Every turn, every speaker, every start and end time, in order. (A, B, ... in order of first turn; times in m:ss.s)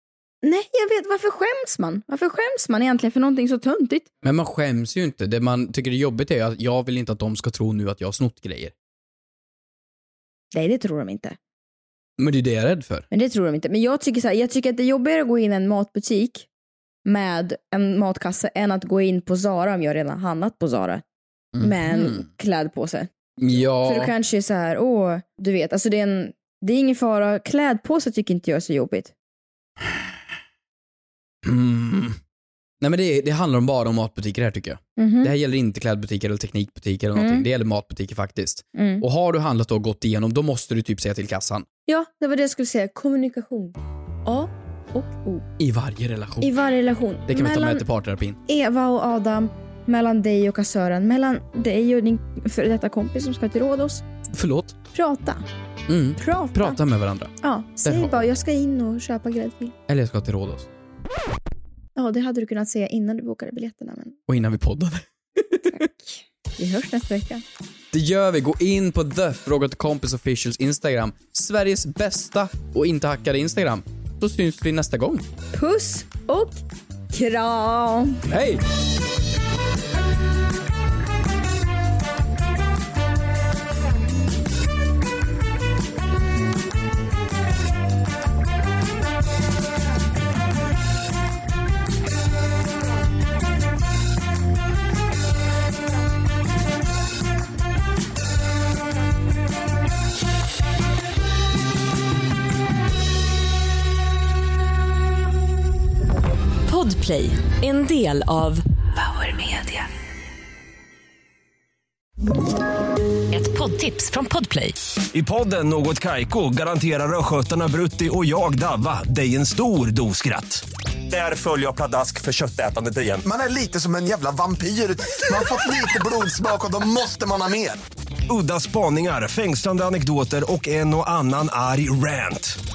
0:00.4-0:04.1 A
0:04.2-0:08.7 B
0:10.5-0:11.4 A
0:12.2-0:13.1 B
0:13.1-0:16.5 A
0:17.0-0:21.0 A
0:21.6-0:22.2 B
0:21.6-0:23.1 A
0:23.4-0:24.1 B
0:23.8-0:29.1 A
0:31.4-0:32.2 B
0:32.8-0:41.7 B
0:35.0-0:35.3 A
0:37.1-0:37.5 A
0:38.7-0:39.0 A
0:41.8-0:45.5 A
0:45.6-0:46.5 B
0:46.4-0:47.8 A
0:47.3-0:48.4 B
0:48.4-0:54.1 A
0:54.3-0:54.8 B
0:54.9-0:55.4 A
0:55.9-0:58.2 B
0:56.2-0:56.8 A
0:57.4-0:59.8 A
0:59.9-1:00.7 B
1:02.0-1:04.2 A
1:04.3-1:05.8 B
1:05.7-1:07.4 A
1:07.9-1:15.2 B
1:15.5-1:18.2 A
1:18.3-1:18.6 B
1:46.6-1:49.9 C
1:53.3-1:54.8 C
1:55.1-2:03.2 D
2:03.2-2:07.8 E
2:08.3-2:12.6 D